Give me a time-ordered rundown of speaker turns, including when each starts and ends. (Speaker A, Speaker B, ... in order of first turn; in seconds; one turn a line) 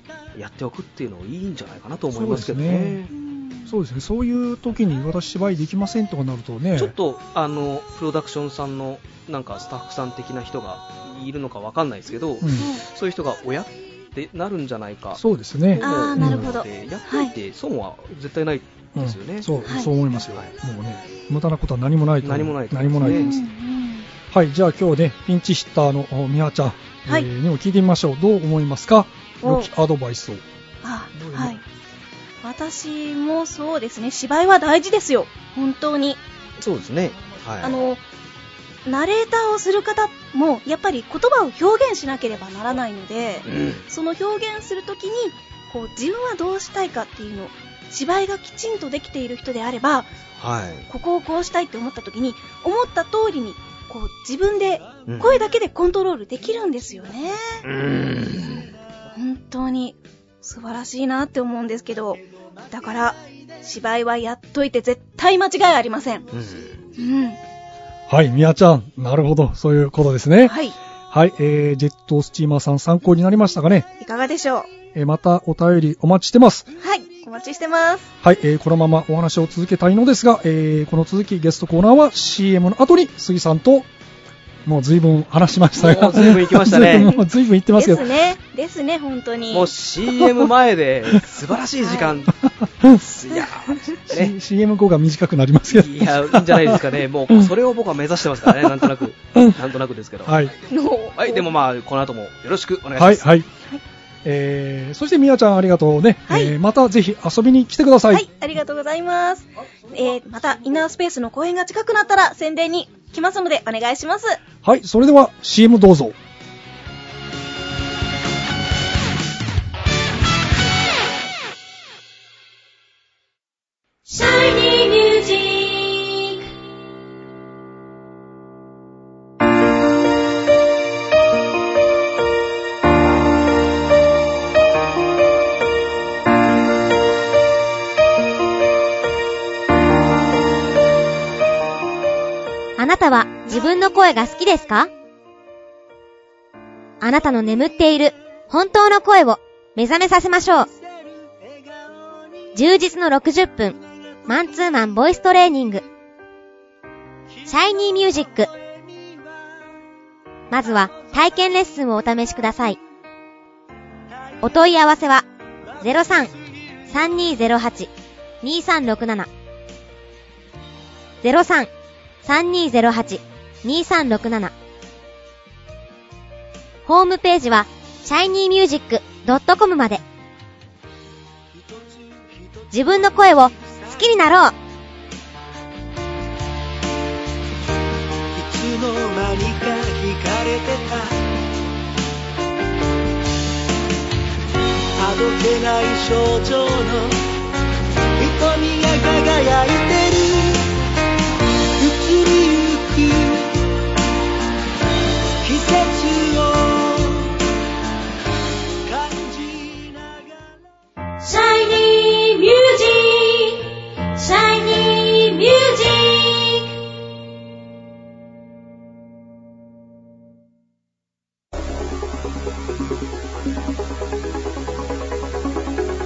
Speaker A: 0.3-3.1
Speaker B: 2.1-3.0
Speaker C: 3.1-3.7
Speaker B: 3.7-6.9
Speaker A: 6.8-19.5
Speaker B: 12.4-12.7
Speaker B: 15.2-16.5
Speaker C: 15.8-17.3
Speaker B: 18.9-23.3
Speaker C: 19.6-19.9
Speaker A: 22.2-23.4
Speaker C: 23.1-24.1
Speaker B: 24.3-30.4
Speaker C: 29.4-29.7
Speaker C: 30.8-31.6
Speaker B: 31.1-31.6
Speaker C: 32.4-36.2
Speaker A: 36.6-37.8
Speaker C: 37.6-38.0
Speaker C: 38.9-50.1
Speaker A: 43.5-43.8
Speaker A: 50.4-50.9
Speaker C: 50.9-57.6
Speaker A: 55.1-55.4
Speaker A: 57.6-58.7
Speaker C: 59.1-66.3
Speaker A: 66.3-66.8
Speaker C: 67.0-67.4
Speaker B: 68.1-70.5
Speaker C: 70.5-70.7
Speaker B: 71.1-73.9
Speaker C: 74.0-74.7
Speaker B: 74.9-76.7
Speaker C: 76.8-78.1
Speaker B: 78.2-83.9
Speaker B: 84.6-88.0
Speaker A: 85.7-87.1
Speaker C: 86.9-89.7
Speaker A: 89.5-92.3
Speaker C: 91.8-92.2
Speaker B: 92.7-93.0
Speaker A: 92.8-94.3
Speaker B: 94.1-96.8
Speaker A: 95.7-100.4
Speaker B: 98.5-98.8
Speaker B: 100.2-100.5
Speaker C: 100.7-101.5
Speaker A: 101.2-103.2
Speaker B: 103.0-103.5
Speaker B: 104.2-108.2
Speaker C: 106.3-106.5
Speaker C: 108.1-114.4
Speaker B: 114.6-116.2
Speaker D: 124.1-126.5
Speaker D: 142.8-144.9
Speaker D: 147.0-150.7
Speaker D: 152.5-155.8
Speaker D: 157.4-158.5
Speaker D: 160.5-162.8
Speaker D: 164.4-165.2
Speaker D: 165.8-166.3
Speaker D: 166.9-167.9
Speaker D: 168.4-169.3
Speaker D: 171.2-171.7
Speaker D: 172.2-174.5
Speaker D: 176.8-180.0
Speaker D: 182.7-184.5
Speaker E: 188.3-191.2
Speaker E: 195.0-197.2
Speaker E: 198.2-200.7
Speaker E: 201.8-203.7
Speaker E: 205.4-207.4
Speaker E: 208.8-210.2
Speaker D: 211.2-216.8